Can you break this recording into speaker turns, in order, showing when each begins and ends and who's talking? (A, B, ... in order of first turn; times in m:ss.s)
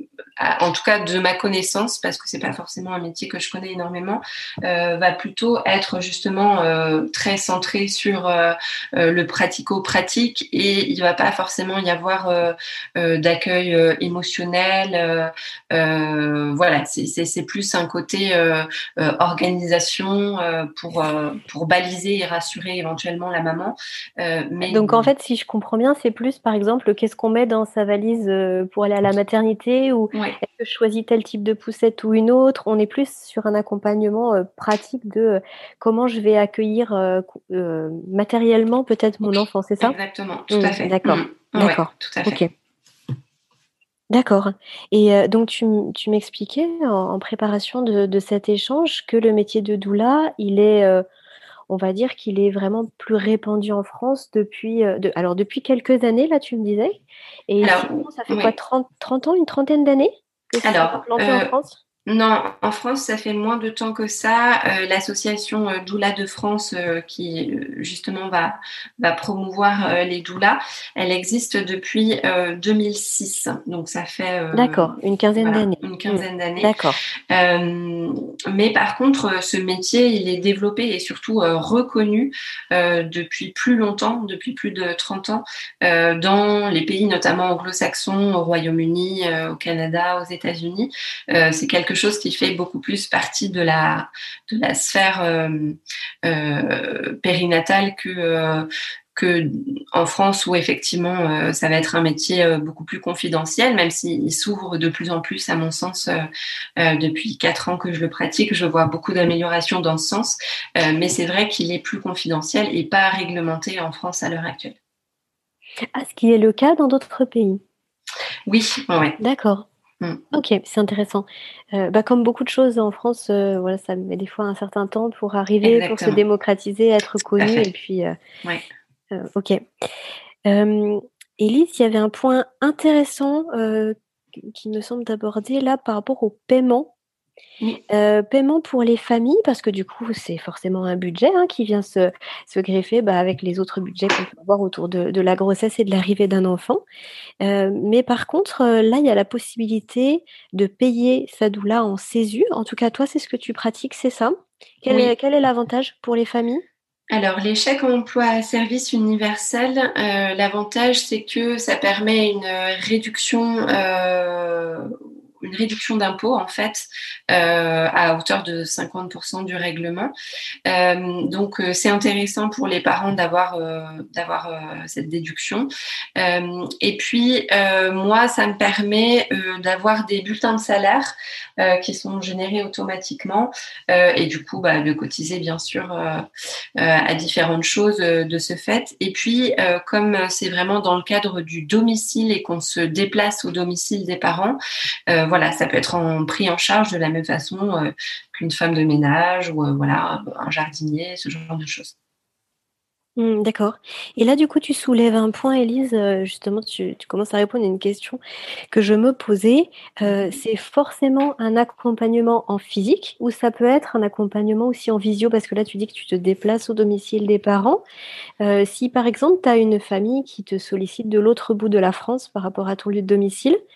0:00.4-0:25.1 A
0:24.7-0:40.0 B
0:30.1-0:30.4 A
0:39.8-0:42.4 A
0:40.5-0:42.5 B
0:44.1-0:51.0 B
0:51.7-1:01.8 B
0:57.6-0:58.5 A
1:00.6-1:01.5 A
1:02.1-1:16.8 A
1:14.5-1:17.0 B
1:17.3-1:46.3 A
1:46.8-1:54.8 A
1:56.0-1:57.6 B
1:58.5-1:59.2 A
1:59.2-1:59.7 B
2:00.3-2:08.2 B
2:05.6-2:06.2 A
2:07.4-2:07.7 A
2:09.1-2:09.6 B
2:10.5-2:16.9 B
2:17.9-2:26.8 B
2:27.4-2:36.6 B
2:37.1-2:50.1 A
2:50.7-3:06.2 A
3:06.8-3:21.9 A
3:23.2-3:28.2 B
3:28.7-3:37.8 B
3:38.4-3:43.6 B